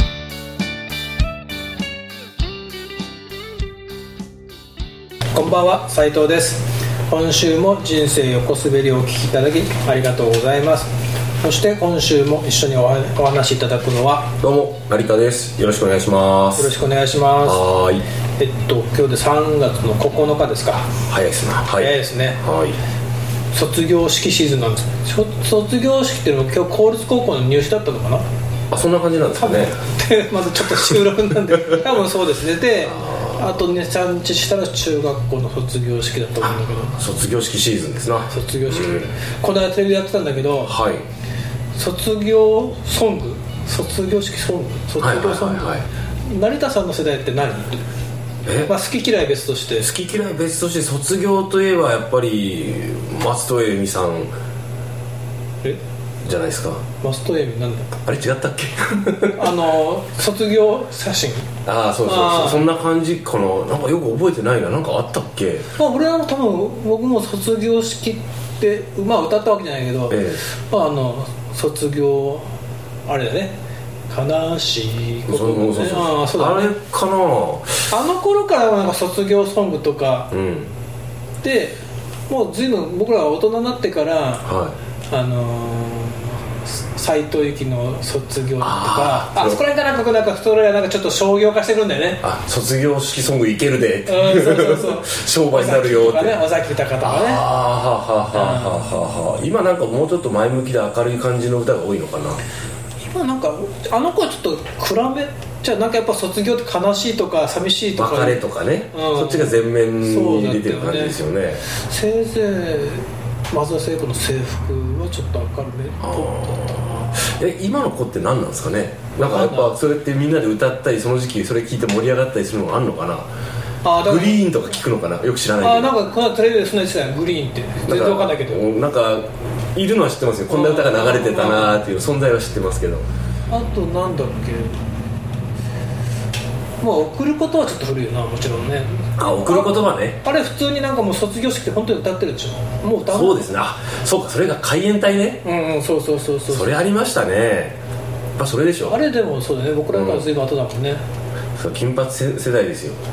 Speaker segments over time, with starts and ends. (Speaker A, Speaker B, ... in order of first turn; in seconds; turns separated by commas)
Speaker A: 5.3-14.3, Speaker B: 14.4-16.7, Speaker A: 16.6-17.7, Speaker B: 17.4-18.0, Speaker A: 18.4-20.9, Speaker B: 21.1-22.8, Speaker A: 21.8-22.4, Speaker A: 23.5-28.3, Speaker B: 28.7-29.8, Speaker A: 29.4-37.0, Speaker B: 31.5-31.8, Speaker B: 32.8-33.6, Speaker B: 36.4-39.1, Speaker A: 38.3-40.8, Speaker B: 40.6-41.0, Speaker A: 41.8-47.8, Speaker B: 45.0-45.9, Speaker B: 48.5-48.7, Speaker A: 48.6-49.9, Speaker B: 49.8-54.3, Speaker B: 56.2-56.8, Speaker A: 57.0-58.0, Speaker B: 58.0-59.7, Speaker A: 59.4-61.5, Speaker B: 61.6-65.7, Speaker A: 62.0-62.7, Speaker A: 65.8-72.5, Speaker B: 70.1-70.4, Speaker A: 73.1-73.6, Speaker A: 74.1-76.7, Speaker B: 75.3-77.9, Speaker A: 77.9-80.3, Speaker B: 80.3-80.7, Speaker A: 81.4-81.8, Speaker A: 82.3-84.6, Speaker B: 84.5-84.8, Speaker A: 85.1-92.2, Speaker B: 88.6-89.6, Speaker B: 92.2-96.4, Speaker A: 94.1-97.5, Speaker B: 97.0-102.4, Speaker A: 98.3-98.9, Speaker A: 103.0-108.4, Speaker B: 108.0-111.7, Speaker A: 108.9-117.2, Speaker B: 116.0-123.3, Speaker A: 119.2-119.8, Speaker A: 123.8-124.5, Speaker B: 124.0-126.0, Speaker A: 125.6-128.6, Speaker B: 127.9-133.1, Speaker A: 130.5-131.8, Speaker A: 133.5-134.8, Speaker A: 136.8-143.5, Speaker B: 139.2-140.2, Speaker B: 143.0-145.4, Speaker A: 145.4-146.7, Speaker B: 146.5-147.8, Speaker B: 148.4-149.0, Speaker A: 148.9-151.0, Speaker B: 149.9-150.3, Speaker B: 151.6-153.0